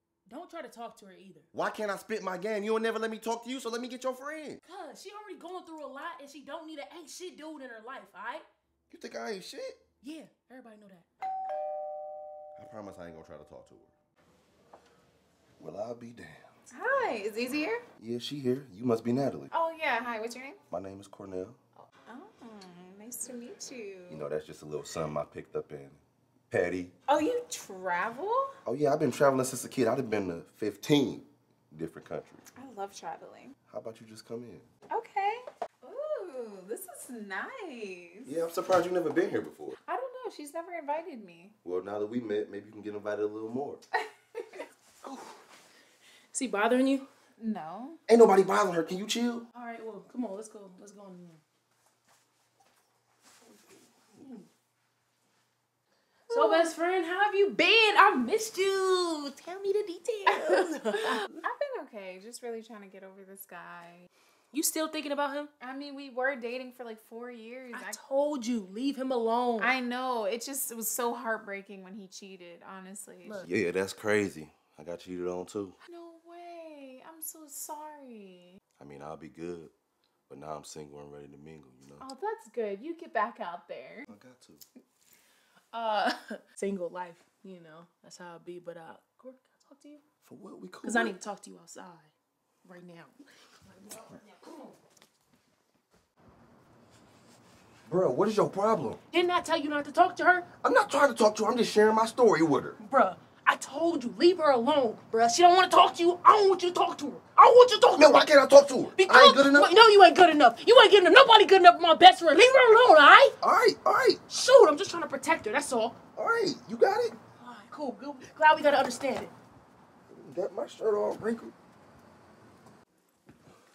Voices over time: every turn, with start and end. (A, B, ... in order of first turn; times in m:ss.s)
0:00.3-0:01.5 A
0:01.5-0:04.6 B
0:04.6-0:08.4 A
0:08.9-0:09.8 B
0:10.0-0:11.1 A
0:12.6-0:13.9 B
0:15.6-0:16.5 B
0:16.7-0:17.8 C
0:18.0-0:19.5 B
0:19.5-0:20.6 C
0:20.7-0:21.6 B
0:21.8-0:24.3 C
0:24.1-0:26.9 B
0:27.1-0:28.5 C
0:28.6-0:32.4 B
0:32.5-0:33.5 C
0:33.7-0:34.7 B
0:34.9-0:38.3 C
0:38.2-0:39.8 B
0:39.8-0:41.6 C
0:41.6-0:43.8 B
0:43.9-0:44.6 C
0:45.0-0:45.3 B
0:46.3-0:47.0 A
0:47.4-0:48.0 C
0:48.1-0:49.4 B
0:49.5-0:51.4 A
0:54.1-0:54.5 A
0:56.3-1:01.4 A
0:56.3-0:56.7 C
1:01.4-1:04.1 C
1:04.5-1:05.5 A
1:05.6-1:08.0 C
1:07.7-1:09.7 A
1:09.6-1:13.4 C
1:13.2-1:13.5 A
1:13.4-1:15.8 B
1:15.8-1:18.6 C
1:18.8-1:19.7 B
1:20.3-1:22.0 B
1:22.0-1:24.1 C
1:24.1-1:24.6 B
1:25.7-1:30.0 A
1:30.2-1:31.1 B
1:30.8-1:32.1 A
1:32.6-1:33.1 A
1:33.6-1:34.8 A
1:37.9-1:39.0 B
1:39.1-1:40.4 A
1:40.6-1:42.8 B
1:42.8-1:48.3 A
1:47.9-1:49.7 B
1:48.9-1:53.4 A
1:53.4-1:54.2 B
1:54.3-1:56.0 A
1:56.2-1:57.2 B
1:57.4-1:59.3 A
2:00.1-2:01.5 B